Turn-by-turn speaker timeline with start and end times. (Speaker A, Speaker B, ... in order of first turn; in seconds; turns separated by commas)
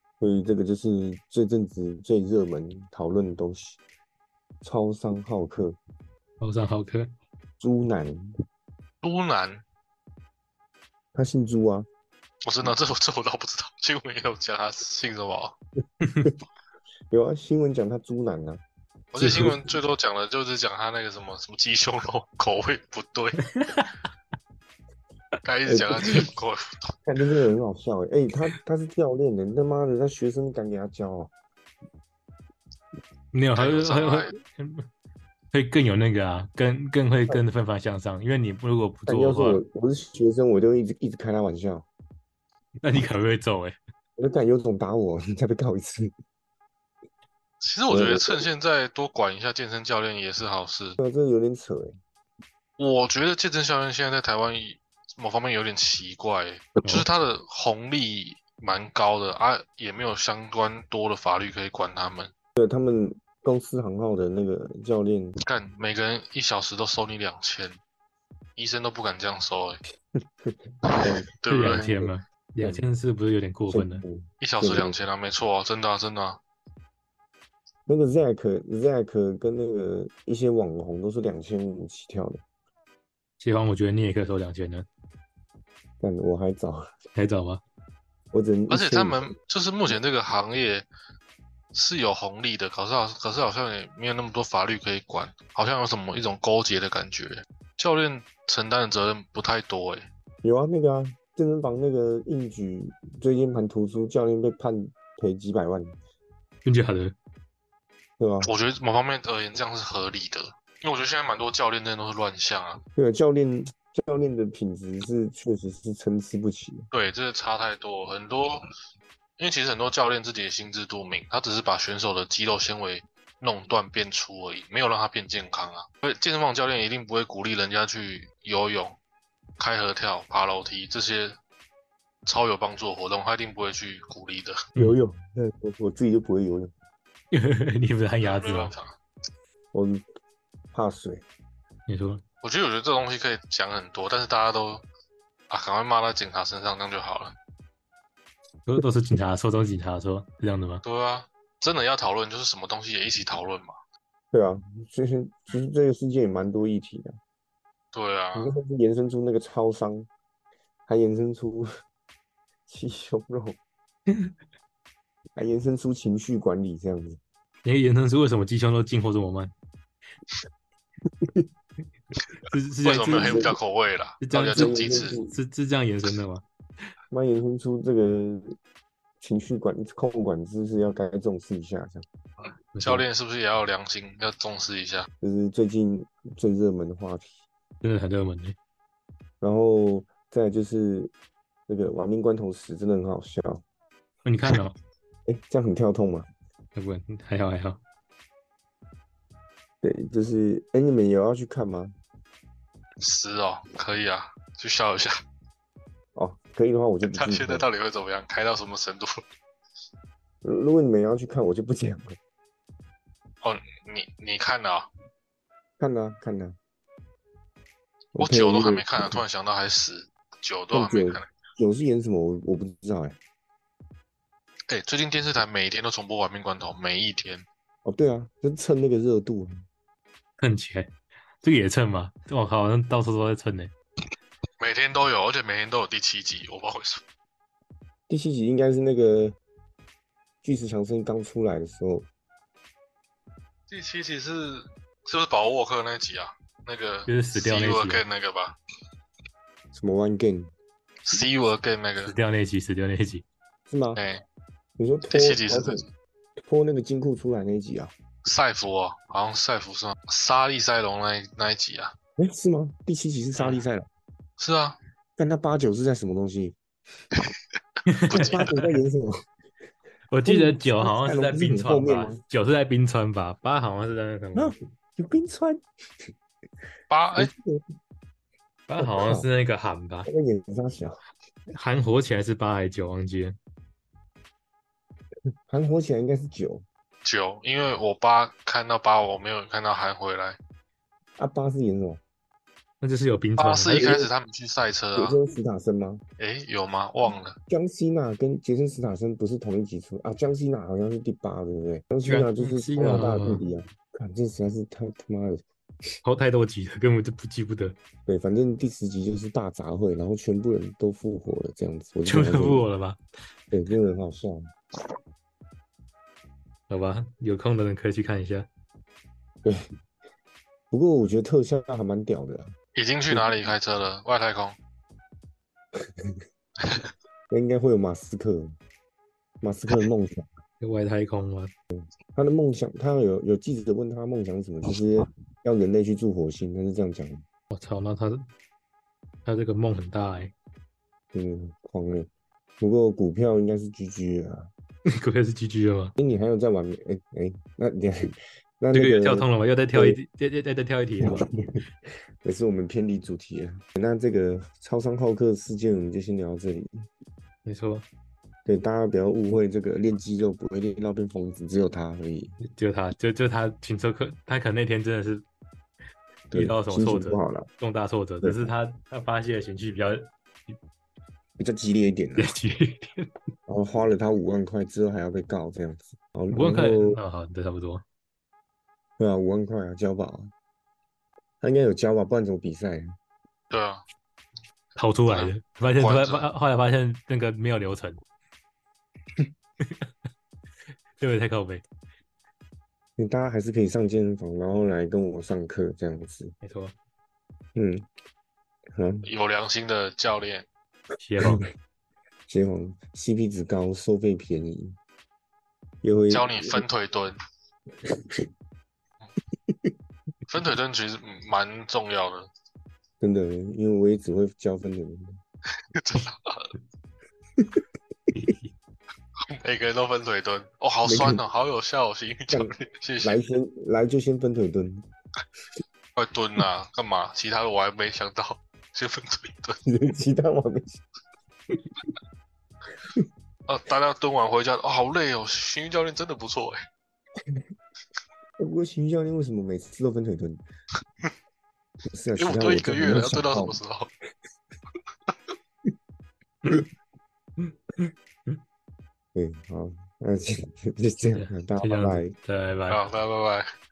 Speaker A: 0.2-3.8, Speaker A: 4.6-5.8, Speaker B: 6.4-7.1, Speaker A: 7.6-8.2, Speaker C: 9.0-9.6, Speaker A: 11.1-11.9, Speaker C: 12.4-15.6, Speaker A: 17.1-18.6, Speaker C: 19.1-23.4, Speaker B: 19.2-19.6, Speaker A: 19.3-19.6, Speaker B: 23.6-23.9, Speaker C: 25.4-26.9, Speaker A: 25.7-26.3, Speaker A: 27.1-31.3, Speaker B: 33.3-34.9, Speaker C: 33.6-34.3, Speaker B: 35.5-39.6, Speaker A: 39.1-41.9, Speaker B: 42.8-43.8, Speaker A: 44.2-46.1, Speaker C: 47.6-51.0, Speaker A: 47.9-48.5, Speaker A: 51.0-52.0, Speaker C: 52.8-62.3, Speaker A: 62.6-65.4, Speaker C: 65.4-67.8, Speaker C: 68.6-69.8, Speaker A: 70.4-71.3, Speaker C: 70.8-71.9, Speaker B: 71.5-74.0, Speaker A: 71.8-72.8, Speaker A: 73.7-75.0, Speaker C: 74.4-76.4, Speaker A: 77.9-82.4, Speaker B: 83.4-84.9, Speaker A: 86.0-86.9, Speaker B: 87.2-87.6, Speaker A: 88.3-89.2, Speaker C: 88.7-90.9, Speaker C: 91.7-100.1, Speaker A: 100.4-106.0, Speaker B: 106.7-107.2, Speaker A: 108.2-108.5, Speaker C: 108.4-112.8, Speaker A: 113.0-116.9, Speaker C: 116.9-118.7, Speaker C: 119.4-129.0, Speaker C: 129.6-131.4, Speaker C: 132.2-134.6, Speaker A: 134.8-136.7, Speaker B: 137.3-138.7, Speaker C: 138.2-138.9, Speaker A: 139.7-140.0, Speaker A: 140.7-141.2, Speaker B: 141.9-142.2, Speaker C: 142.4-144.9, Speaker C: 145.5-147.4, Speaker B: 148.7-150.8, Speaker C: 150.8-153.7, Speaker A: 154.3-157.2, Speaker C: 157.9-158.6, Speaker A: 158.3-160.1, Speaker A: 160.9-161.7, Speaker A: 162.7-163.6, Speaker A: 165.4-167.2, Speaker B: 167.7-169.5, Speaker B: 172.5-173.6, Speaker C: 172.8-175.2, Speaker A: 173.2-173.6, Speaker B: 174.2-176.4, Speaker A: 174.5-175.3, Speaker A: 177.1-178.6, Speaker A: 179.2-182.1, Speaker B: 182.8-183.0, Speaker C: 182.8-185.1, Speaker A: 185.2-187.4, Speaker B: 187.8-188.6, Speaker A: 189.4-191.1, Speaker A: 191.7-193.6, Speaker B: 194.3-194.8, Speaker A: 195.3-196.3, Speaker B: 196.8-197.8, Speaker A: 199.8-201.9, Speaker C: 203.0-205.1, Speaker A: 206.2-207.7, Speaker C: 207.0-209.2, Speaker A: 210.4-212.2, Speaker C: 213.4-214.9, Speaker A: 215.8-216.6, Speaker A: 218.2-219.2, Speaker C: 218.2-221.3, Speaker A: 220.7-223.2, Speaker C: 224.7-227.5, Speaker A: 227.8-229.6, Speaker B: 230.4-233.7, Speaker C: 234.6-237.0, Speaker A: 238.1-239.4, Speaker A: 240.4-242.1, Speaker C: 243.7-248.6, Speaker B: 247.1-248.0, Speaker A: 249.7-250.5, Speaker C: 251.1-252.1, Speaker B: 252.0-253.2, Speaker A: 253.7-254.0, Speaker C: 254.0-254.2, Speaker A: 254.8-255.8, Speaker C: 255.1-255.9, Speaker A: 256.4-257.9, Speaker C: 258.2-261.9, Speaker A: 262.2-263.9, Speaker C: 263.4-263.6, Speaker C: 264.4-264.8, Speaker A: 265.2-266.6, Speaker B: 267.9-268.3, Speaker C: 268.0-268.6, Speaker A: 268.1-269.2, Speaker B: 270.1-274.6, Speaker A: 270.2-272.2, Speaker A: 274.4-275.6, Speaker C: 276.9-277.3, Speaker A: 277.2-277.6, Speaker B: 278.7-280.1, Speaker A: 278.8-279.3, Speaker A: 280.1-281.0, Speaker B: 281.5-283.4, Speaker A: 285.5-286.6, Speaker C: 287.1-290.4, Speaker A: 291.2-292.0, Speaker B: 292.8-293.9, Speaker C: 293.4-295.2, Speaker A: 293.8-294.1, Speaker A: 295.0-296.0, Speaker C: 296.2-297.4, Speaker A: 297.5-305.4, Speaker B: 302.1-303.4, Speaker B: 306.0-307.8, Speaker A: 308.1-312.7, Speaker B: 312.1-313.0, Speaker A: 313.5-314.5, Speaker B: 316.7-318.5, Speaker A: 320.7-322.5, Speaker C: 322.8-324.6, Speaker A: 325.8-326.2, Speaker C: 326.6-326.9, Speaker A: 327.3-328.6, Speaker A: 329.4-330.3, Speaker B: 330.6-331.5, Speaker A: 331.7-337.2, Speaker B: 337.5-338.2, Speaker B: 339.2-340.3, Speaker A: 341.1-342.1, Speaker A: 342.6-344.5, Speaker B: 344.9-345.9, Speaker A: 346.0-350.0, Speaker B: 348.7-351.2, Speaker A: 351.0-351.6, Speaker A: 352.2-356.9, Speaker B: 357.4-357.9, Speaker A: 358.5-362.4, Speaker B: 362.4-365.2, Speaker A: 366.3-367.5, Speaker B: 366.3-370.1, Speaker A: 368.2-368.5, Speaker A: 371.4-372.3, Speaker B: 372.2-373.1, Speaker A: 373.5-377.0, Speaker B: 376.3-377.8, Speaker A: 379.0-380.3, Speaker A: 381.4-382.9, Speaker C: 383.5-383.8, Speaker B: 384.8-388.0, Speaker C: 385.1-386.3, Speaker B: 391.0-391.6, Speaker A: 393.0-396.3, Speaker B: 396.4-396.8, Speaker A: 397.6-397.9, Speaker A: 398.8-399.1, Speaker C: 399.0-400.5, Speaker B: 401.0-401.4, Speaker A: 402.3-404.8, Speaker A: 405.8-406.7, Speaker C: 406.1-407.2, Speaker A: 407.9-408.2, Speaker C: 410.3-412.3, Speaker A: 413.0-415.2, Speaker C: 415.7-416.5, Speaker B: 418.1-418.5, Speaker C: 419.3-423.2, Speaker A: 420.8-421.2, Speaker A: 422.3-424.9, Speaker C: 426.0-429.6, Speaker A: 429.7-430.8, Speaker C: 433.5-436.6, Speaker A: 438.4-440.4, Speaker A: 441.9-443.6, Speaker C: 442.2-443.9, Speaker B: 447.5-448.4, Speaker A: 449.1-452.1, Speaker B: 451.1-452.8, Speaker C: 452.7-453.5